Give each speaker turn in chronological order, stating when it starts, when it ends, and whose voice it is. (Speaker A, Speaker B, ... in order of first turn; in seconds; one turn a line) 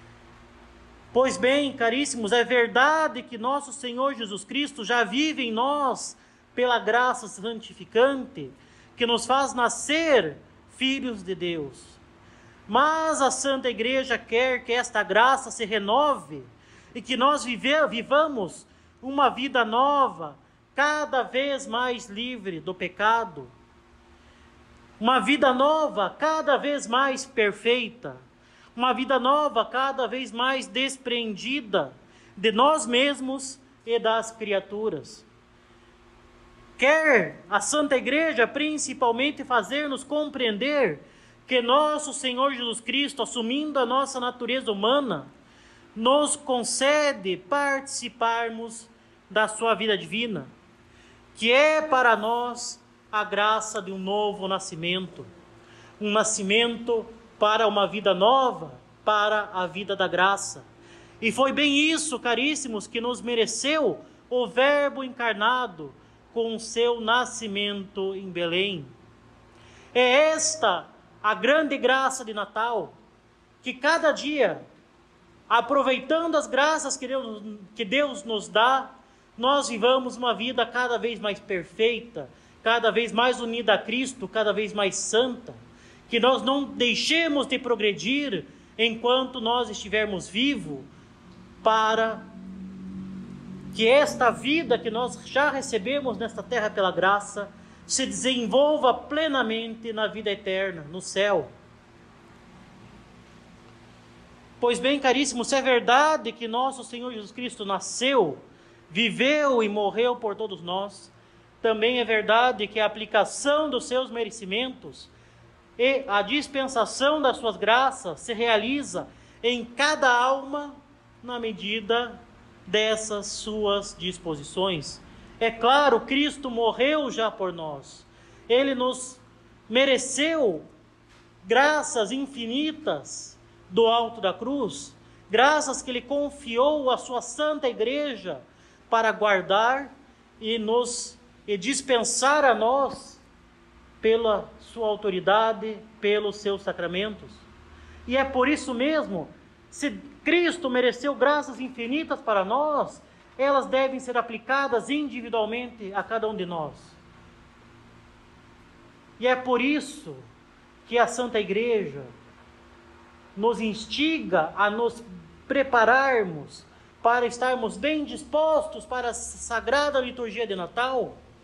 Speaker A: 1.1-12.0
Speaker A: 12.7-23.5
Speaker A: 25.0-28.2
Speaker A: 28.8-35.2
Speaker A: 36.8-45.3
Speaker A: 46.0-50.5
Speaker A: 51.4-55.3
Speaker A: 56.0-60.7
Speaker A: 61.2-68.9
Speaker A: 69.9-72.9
Speaker A: 73.6-74.6
Speaker A: 75.5-85.6
Speaker A: 86.1-90.9
Speaker A: 91.6-92.2
Speaker A: 93.7-101.5
Speaker A: 104.6-115.1
Speaker A: 115.8-130.7
Speaker A: 131.4-143.2
Speaker A: 144.0-147.4
Speaker A: 148.1-157.0
Speaker A: 159.2-160.2
Speaker A: 160.9-162.1
Speaker A: 163.4-171.2